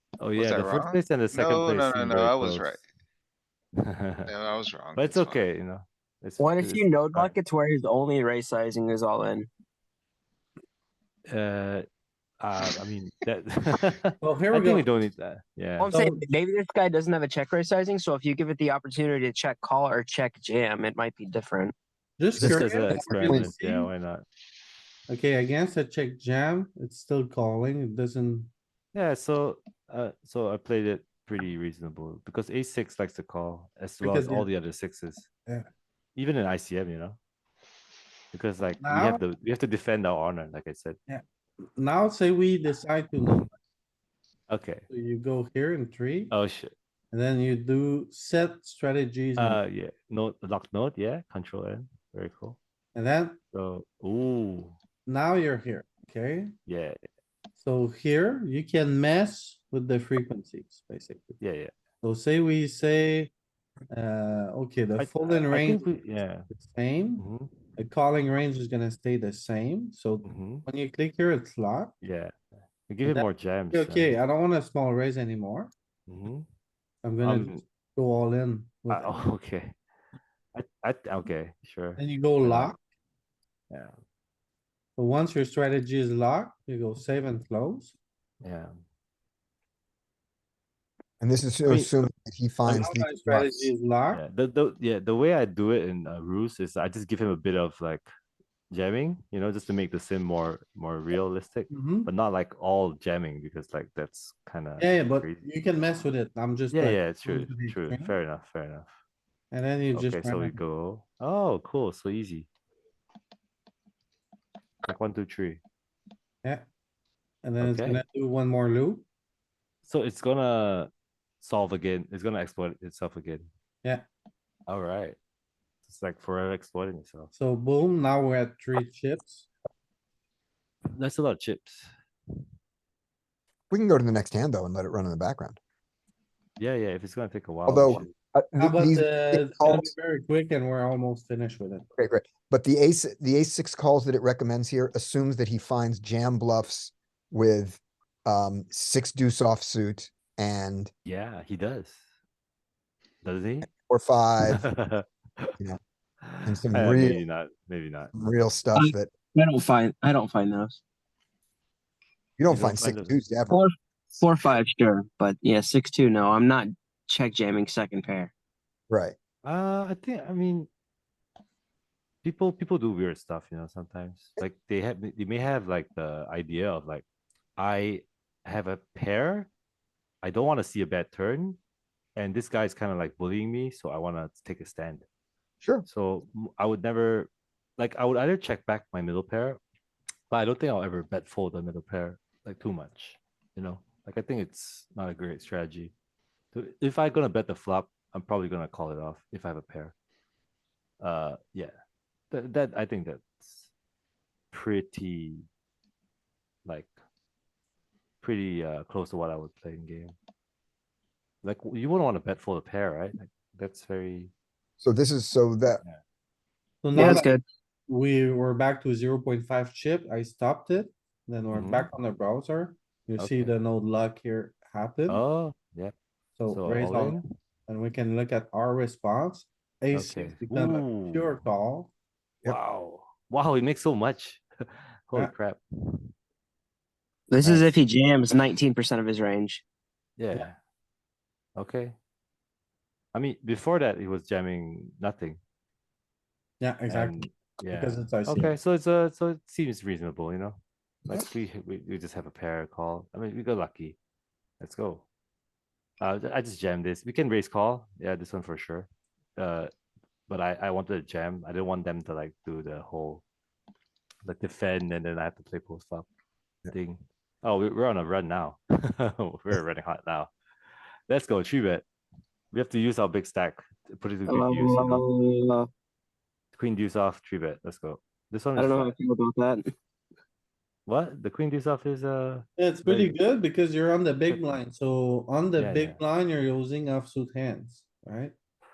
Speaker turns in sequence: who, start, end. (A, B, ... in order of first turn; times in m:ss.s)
0:00.2-0:02.8 A
0:00.4-0:02.8 B
0:03.8-0:04.3 A
0:04.3-0:05.5 B
0:05.0-0:07.4 A
0:06.4-0:09.5 C
0:11.3-0:11.8 A
0:12.4-0:15.9 A
0:14.2-0:14.9 D
0:15.8-0:21.7 C
0:15.9-0:16.2 D
0:22.2-0:23.9 D
0:22.4-0:24.2 A
0:25.1-0:28.5 D
0:28.9-0:35.3 A
0:34.0-0:34.5 D
0:36.2-0:37.2 A
0:38.3-0:41.0 A
0:38.8-0:39.2 D
0:41.8-0:43.5 D
0:44.5-0:44.9 A
0:44.9-0:46.3 D
0:46.3-0:46.7 A
0:47.1-0:49.6 D
0:49.4-0:52.6 A
0:52.9-0:53.4 D
0:53.5-0:54.8 A
0:55.1-0:56.5 D
0:56.7-0:57.0 A
0:57.6-1:01.4 D
1:01.4-1:01.7 A
1:02.0-1:03.3 D
1:03.9-1:05.9 D
1:05.0-1:06.4 A
1:06.5-1:07.2 D
1:07.2-1:07.6 A
1:07.8-1:11.9 D
1:10.2-1:10.6 A
1:12.0-1:14.2 A
1:13.0-1:15.7 D
1:16.1-1:16.5 A
1:17.0-1:19.2 D
1:17.2-1:17.6 A
1:18.9-1:19.8 A
1:20.6-1:22.7 A
1:22.0-1:22.8 D
1:25.0-1:28.0 D
1:28.4-1:28.7 A
1:31.2-1:33.7 E
1:31.7-1:31.9 A
1:32.7-1:34.2 D
1:34.1-1:38.1 A
1:38.7-1:45.5 A
1:41.7-1:42.1 D
1:44.8-1:48.2 D
1:46.7-1:48.9 A
1:49.5-1:50.6 D
1:49.9-1:52.5 A
1:54.8-1:55.6 A
1:57.4-1:59.0 D
1:57.6-1:58.0 A
1:59.8-2:00.9 A
2:01.4-2:03.5 A
2:04.7-2:05.2 A
2:05.9-2:07.3 A
2:07.3-2:09.5 D
2:11.0-2:11.9 A
2:13.7-2:15.6 E
2:16.6-2:18.1 A
2:17.7-2:19.9 E
2:18.6-2:21.9 D
2:22.0-2:30.9 E
2:31.0-2:32.0 A
2:33.2-2:33.7 A
2:33.7-2:34.6 E
2:34.5-2:35.5 A
2:36.2-2:38.1 A
2:36.4-2:37.2 E
2:38.1-2:39.1 E
2:38.8-2:40.8 C
2:42.4-2:43.6 E
2:42.5-2:43.2 A
2:43.5-2:48.3 C
2:48.9-2:49.2 E
2:49.4-2:50.7 A
2:52.2-2:57.0 A
2:57.6-2:59.5 A
3:00.2-3:01.6 A
3:02.2-3:05.0 A
3:05.9-3:09.6 A
3:10.3-3:15.9 A
3:16.5-3:19.9 A
3:21.0-3:21.7 A
3:22.3-3:23.7 A
3:24.5-3:25.4 A
3:26.7-3:26.9 A
3:28.2-3:30.2 A
3:31.4-3:34.3 A
3:34.8-3:35.8 E
3:35.7-3:36.0 A
3:36.8-3:37.3 D
3:37.0-3:37.4 C
3:37.9-3:45.2 D
3:41.5-3:41.9 A
3:43.2-3:43.5 A
3:45.1-3:45.9 A
3:46.4-3:51.9 D
3:46.5-3:47.2 A
3:49.9-3:51.4 A
3:52.4-3:56.0 A
3:57.3-3:59.6 C
3:57.4-3:57.8 A
4:00.2-4:00.6 A
4:01.6-4:02.0 A
4:03.1-4:05.4 A
4:06.6-4:08.6 D
4:06.9-4:14.0 A
4:14.6-4:15.0 A
4:16.0-4:19.7 A
4:20.3-4:23.2 A
4:24.2-4:26.1 A
4:26.7-4:30.3 A
4:31.1-4:31.8 A
4:32.5-4:35.0 A
4:34.3-4:35.7 C
4:36.5-4:39.0 A
4:38.6-4:39.7 C
4:40.9-4:43.2 A
4:42.6-4:48.3 D
4:45.6-4:46.0 A